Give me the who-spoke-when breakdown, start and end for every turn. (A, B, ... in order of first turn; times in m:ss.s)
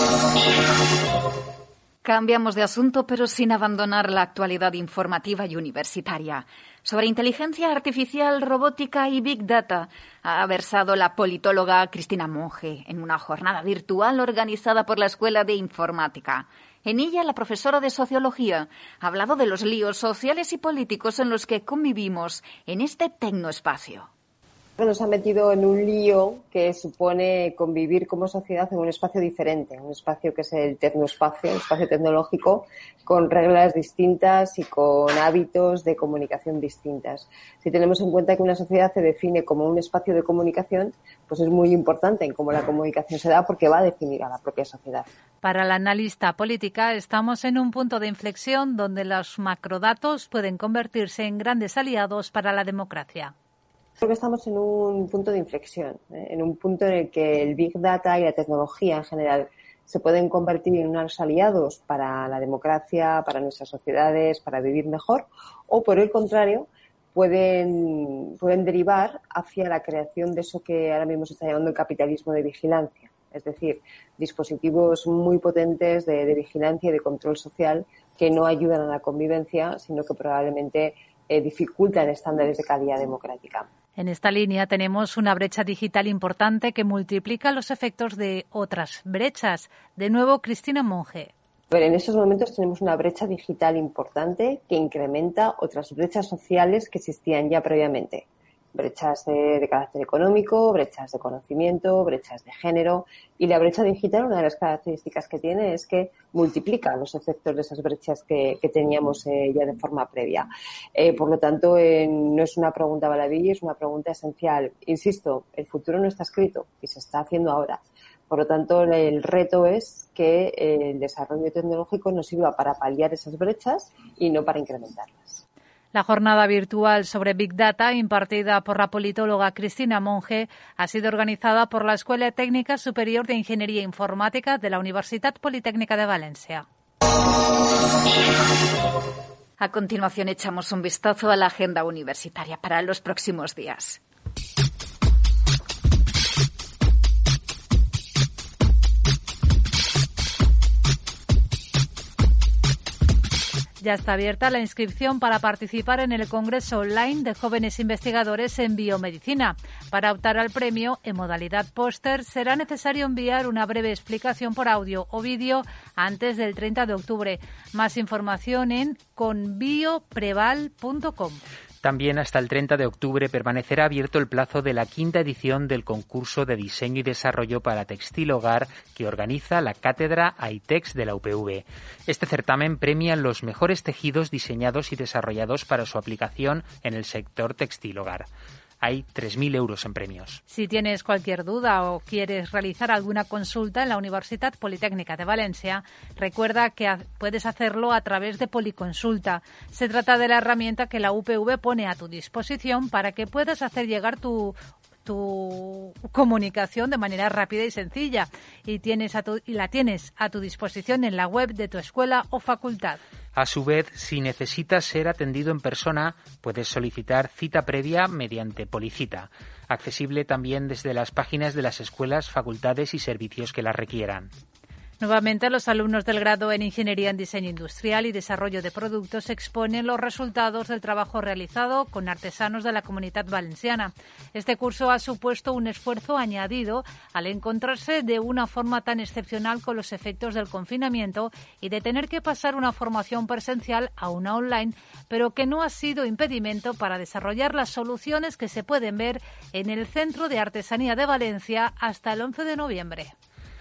0:02.0-0:24.1 A
0:24.8-0:45.1 B
0:45.4-0:53.3 C
0:54.0-1:23.7 B
1:24.0-1:31.3 C
1:31.7-2:05.4 B
2:05.9-2:16.6 C
2:19.6-2:24.0 A
2:33.8-2:51.4 C
2:51.8-3:08.3 D
3:08.8-3:10.4 D
3:10.5-3:33.0 C
3:33.4-3:44.3 D
3:45.0-4:13.1 C